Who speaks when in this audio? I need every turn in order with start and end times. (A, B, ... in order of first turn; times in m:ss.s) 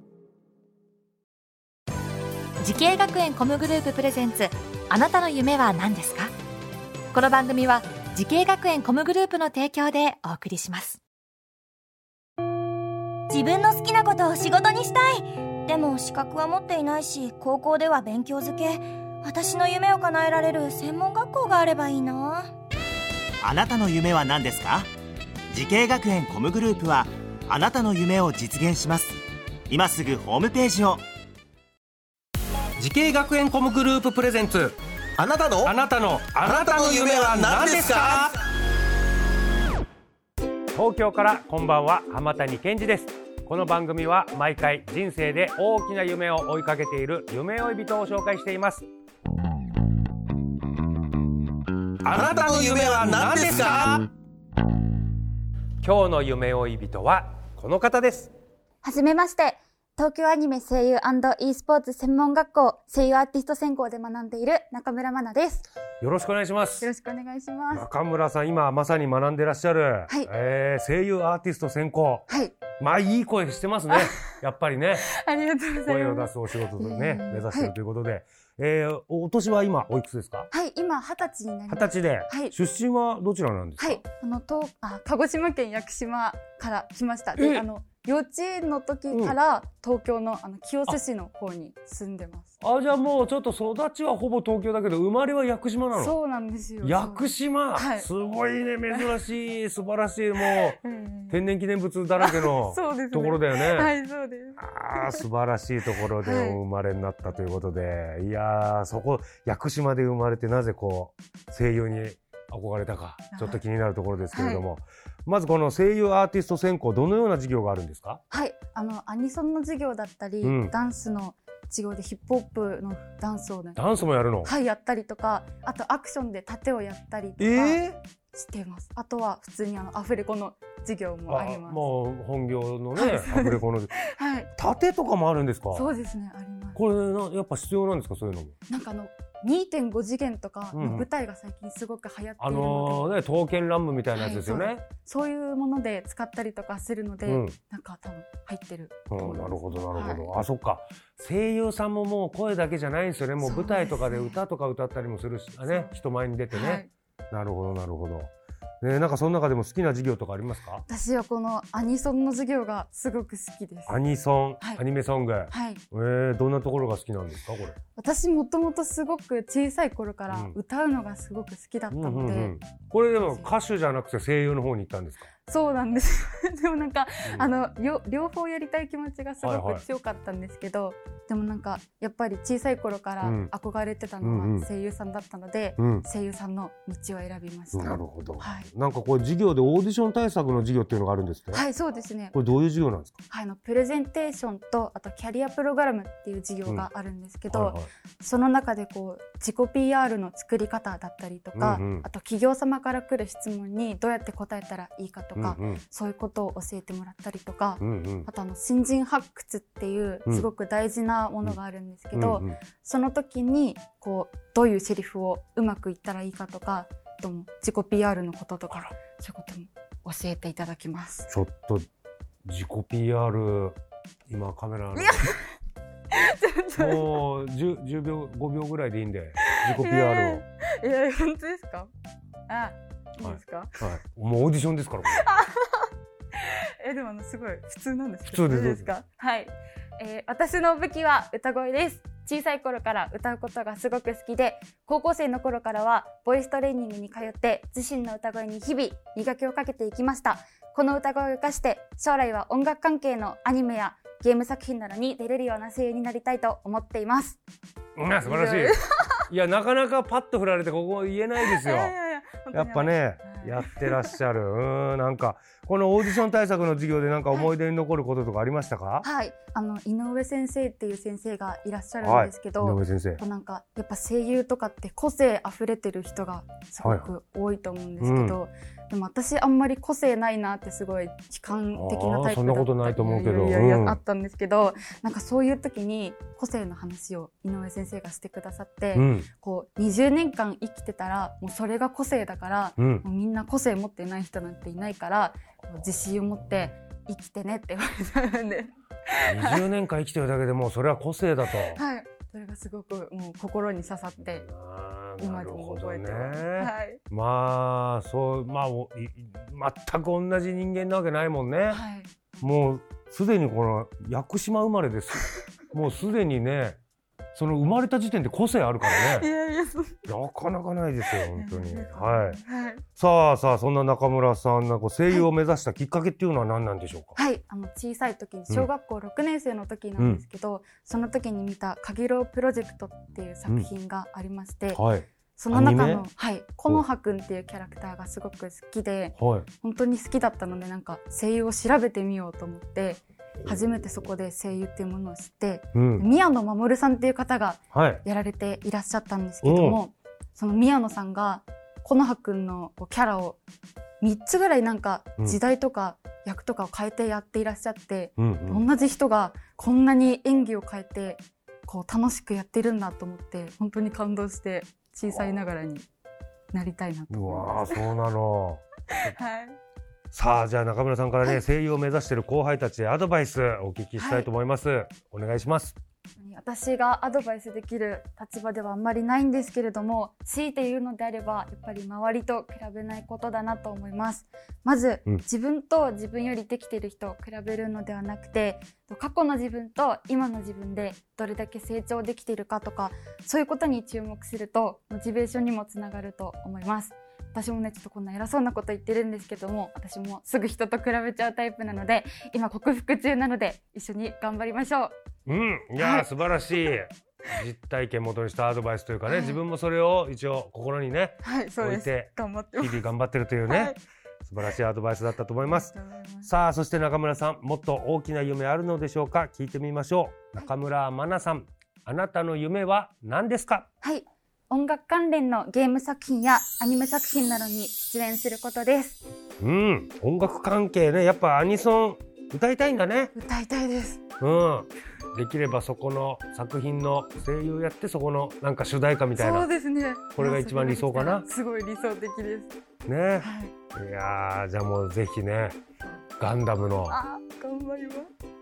0:02.6-0:06.3 A
0:07.1-0:11.0 A
0:13.3-0:22.5 B
0:23.4-0:24.9 C
0:25.5-0:31.0 C
0:32.8-0:34.8 D
0:35.2-0:35.7 E
0:35.6-0:38.4 D
0:36.4-0:38.3 E
0:40.7-0:48.8 D
0:52.0-0:54.0 D
0:52.2-0:54.0 E
0:55.8-0:58.3 D
0:58.8-1:05.7 F
1:06.0-1:06.9 D
1:06.8-1:07.9 F
1:07.7-1:12.2 D
1:12.3-1:12.6 F
1:12.8-1:15.1 D
1:15.0-1:17.7 F
1:15.8-1:20.5 D
1:20.5-1:22.5 F
1:21.7-1:24.0 D
1:23.8-1:32.5 F
1:27.4-1:27.6 D
1:29.1-1:29.4 D
1:32.6-1:36.2 D
1:35.9-1:38.1 F
1:36.8-1:43.9 D
1:40.4-1:41.3 F
1:42.2-1:45.2 F
1:44.6-1:58.2 D
1:46.2-1:46.6 F
1:53.3-1:53.6 F
1:54.3-1:54.6 F
1:58.3-2:03.8 F
2:00.4-2:00.7 D
2:03.8-2:04.5 D
2:04.4-2:11.8 F
2:07.4-2:08.0 D
2:11.3-2:13.9 D
2:12.9-2:14.5 F
2:14.6-2:15.9 D
2:15.7-2:16.8 F
2:16.8-2:18.5 D
2:18.7-2:23.2 F
2:20.7-2:21.1 D
2:22.4-2:24.8 D
2:24.2-2:30.4 F
2:27.2-2:27.6 D
2:29.1-2:40.8 D
2:33.4-2:34.4 F
2:35.6-2:36.0 F
2:36.5-2:36.9 F
2:40.9-2:44.0 F
2:43.9-2:47.8 D
2:45.5-2:45.8 F
2:48.0-2:52.5 F
2:50.3-2:50.6 D
2:51.9-2:55.3 D
2:53.2-2:53.5 F
2:55.4-3:08.7 F
2:57.2-2:57.5 D
2:59.4-2:59.8 D
3:03.2-3:03.5 D
3:04.2-3:04.7 D
3:05.8-3:06.0 D
3:07.7-3:11.6 D
3:11.5-3:12.4 F
3:12.3-3:13.2 D
3:13.3-3:41.3 F
3:17.5-3:17.9 D
3:21.5-3:22.1 D
3:25.4-3:25.8 D
3:27.8-3:28.3 D
3:32.1-3:32.6 D
3:41.3-3:41.8 D
3:42.4-3:43.8 D
3:44.3-3:45.3 D
3:45.0-3:45.4 F
3:46.1-3:47.2 F
3:46.8-3:50.4 D
3:49.4-3:51.9 F
3:52.5-3:53.8 F
3:53.2-3:55.2 D
3:55.1-4:17.4 F
3:58.3-3:58.9 D
4:18.0-4:21.9 D
4:18.2-4:19.2 F
4:21.4-4:24.1 F
4:22.5-4:29.1 D
4:29.0-4:59.6 F
4:32.0-4:33.2 D
4:36.8-4:37.1 D
4:38.0-4:38.4 D
4:41.7-4:44.0 D
4:48.9-4:49.3 D
4:52.8-4:53.0 D
4:59.3-5:01.8 D
5:01.7-5:04.5 F
5:04.3-5:11.8 D
5:05.2-5:07.0 F
5:11.7-5:12.1 F
5:12.4-5:16.8 D
5:17.3-5:19.3 D
5:18.9-5:20.0 F
5:20.1-5:22.4 D
5:21.3-5:22.8 F
5:23.0-5:27.2 D
5:27.1-5:34.8 F
5:30.0-5:30.2 D
5:34.7-5:36.0 D
5:35.4-5:53.4 F
5:39.1-5:39.5 D
5:45.7-5:46.1 D
5:47.7-5:48.0 D
5:49.4-5:49.8 D
5:54.0-6:05.9 F
5:58.2-5:58.6 D
6:06.5-6:07.9 F
6:07.1-6:08.6 D
6:08.9-6:09.6 F
6:10.1-6:15.8 D
6:14.0-6:14.3 F
6:16.2-6:44.9 F
6:45.3-6:55.7 D
6:45.8-6:46.1 F
6:49.1-6:49.4 F
6:51.2-6:52.9 F
6:53.4-6:53.8 F
6:55.4-6:56.3 F
6:56.2-7:03.7 D
7:03.8-7:09.0 F
7:09.4-7:13.1 D
7:13.1-7:14.0 F
7:14.2-7:19.5 D
7:19.2-7:22.5 F
7:20.1-7:21.2 D
7:22.9-7:25.6 D
7:23.2-7:23.6 F
7:26.2-7:27.0 D
7:26.9-7:28.1 F